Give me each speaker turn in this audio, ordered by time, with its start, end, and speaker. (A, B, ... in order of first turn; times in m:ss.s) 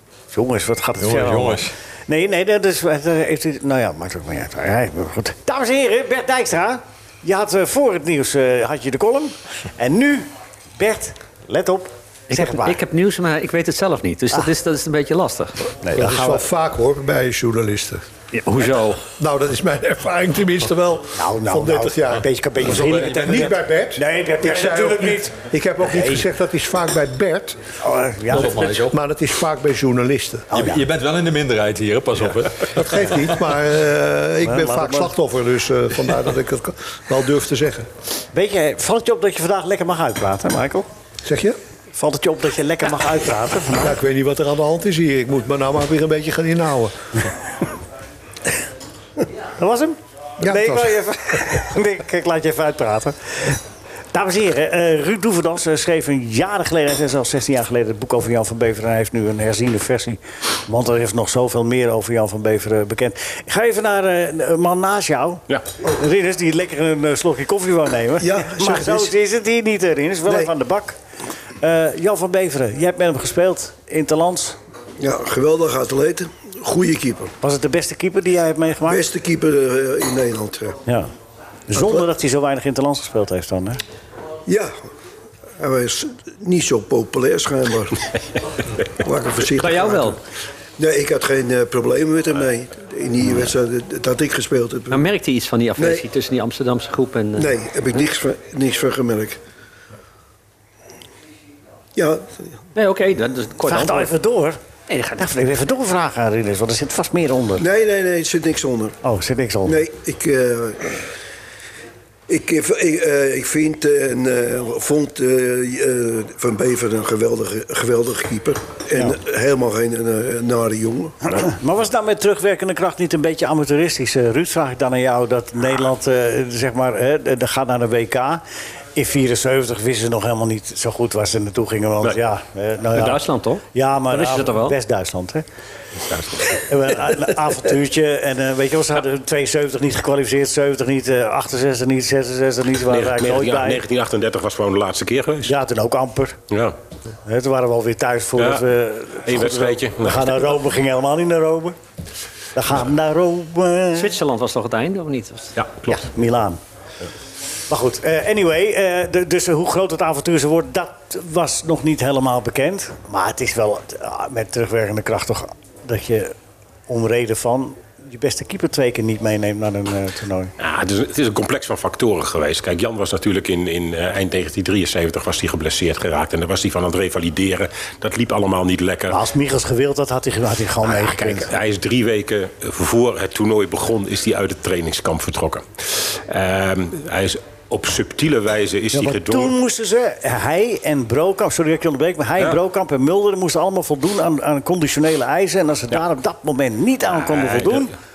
0:00.3-0:12.8 A
0:01.0-0:01.7 B
0:12.3-0:15.5 C
0:15.8-0:16.4 A
0:16.0-0:18.0 D
0:18.3-0:19.0 C
0:19.2-0:27.6 D
0:21.2-0:26.2 A
0:22.6-0:23.5 B
0:27.8-0:28.7 A
0:28.3-0:29.0 B
0:28.4-0:30.5 D
0:30.5-0:30.8 A
0:30.5-0:32.9 B
0:32.6-0:37.9 D
0:34.4-0:35.1 A
0:38.3-0:40.9 A
0:41.2-0:41.6 D
0:41.9-0:44.0 A
0:43.7-0:47.0 D
0:49.6-0:53.6 A
0:50.4-0:51.0 D
0:54.1-1:11.0 A
1:08.2-1:09.1 E
1:10.3-1:10.5 E
1:11.6-1:14.6 A
1:15.0-1:17.3 E
1:17.4-1:19.0 A
1:18.9-1:20.8 E
1:21.7-1:23.8 A
1:21.7-1:22.0 E
1:24.5-1:24.7 E
1:25.6-1:28.0 E
1:29.0-1:30.2 E
1:29.5-1:30.2 C
1:30.8-1:35.0 E
1:34.9-1:37.6 C
1:35.8-1:36.0 E
1:37.4-1:39.4 E
1:42.0-1:42.4 E
1:42.7-1:44.1 C
1:43.7-1:44.6 A
1:44.9-1:45.2 C
1:45.2-1:47.6 A
1:47.6-1:49.0 E
1:49.0-1:49.8 A
1:49.6-1:51.0 E
1:52.3-2:01.2 E
2:01.3-2:08.4 A
2:09.0-2:13.2 A
2:12.9-2:14.8 C
2:13.7-2:15.4 A
2:16.1-2:16.6 F
2:16.5-2:23.8 A
2:22.9-2:25.6 F
2:25.4-2:26.4 A
2:27.2-2:31.7 A
2:28.4-2:28.7 F
2:29.3-2:30.6 F
2:32.6-2:34.1 A
2:33.9-2:35.6 C
2:35.6-2:36.0 F
2:35.9-2:36.6 A
2:37.7-2:46.3 A
2:46.9-2:50.5 A
2:50.6-2:59.2 F
2:59.1-3:01.5 A
3:00.8-3:09.6 F
3:08.9-3:18.0 A
3:17.1-3:17.9 F